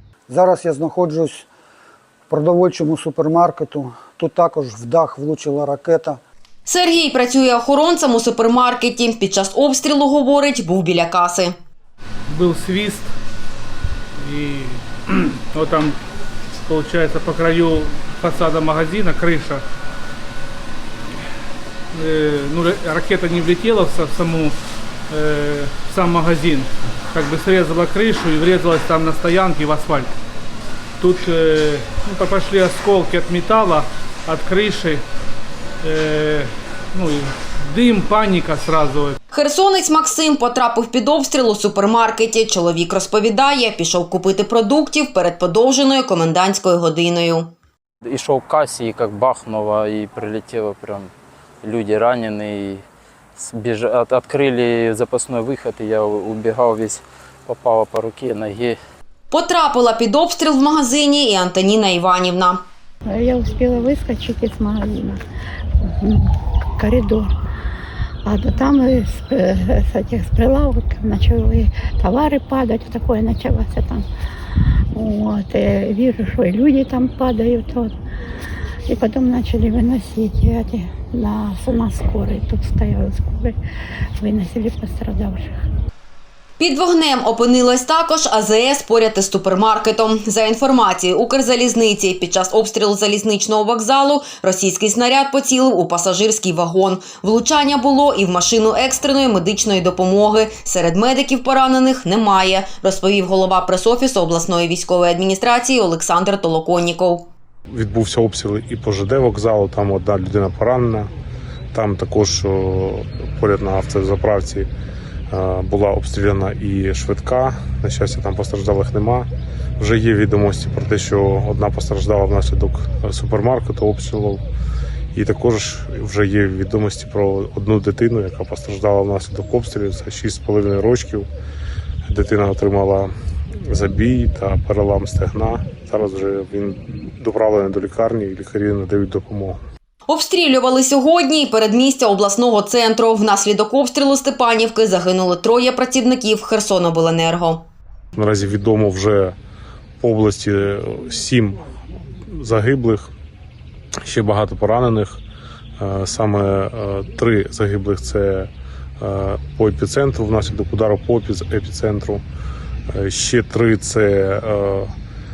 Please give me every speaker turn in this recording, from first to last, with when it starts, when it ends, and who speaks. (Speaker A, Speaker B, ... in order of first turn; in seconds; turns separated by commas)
Speaker A: 0.3-1.5, Speaker A: 2.3-6.2, Speaker B: 6.7-11.5, Speaker C: 12.3-13.1, Speaker C: 14.2-15.9, Speaker C: 16.6-19.6, Speaker C: 21.9-24.5, Speaker C: 25.1-30.1, Speaker C: 31.0-35.0, Speaker C: 35.8-39.2, Speaker B: 39.3-47.5, Speaker D: 48.0-51.1, Speaker D: 51.6-52.8, Speaker D: 53.4-58.8, Speaker B: 59.3-62.6, Speaker E: 63.0-65.2, Speaker E: 65.9-67.3, Speaker E: 68.2-74.0, Speaker E: 74.9-77.9, Speaker E: 78.9-83.5, Speaker E: 84.2-85.5, Speaker B: 86.6-107.3, Speaker F: 107.7-111.1, Speaker F: 111.7-114.7, Speaker F: 115.3-124.4, Speaker F: 125.1-131.3, Speaker F: 132.1-133.1, Speaker F: 133.7-139.6, Speaker B: 140.1-147.7, Speaker F: 148.2-149.3, Speaker F: 150.0-151.6, Speaker F: 152.3-153.1, Speaker F: 154.0-155.2, Speaker F: 155.8-162.2, Speaker F: 162.9-164.9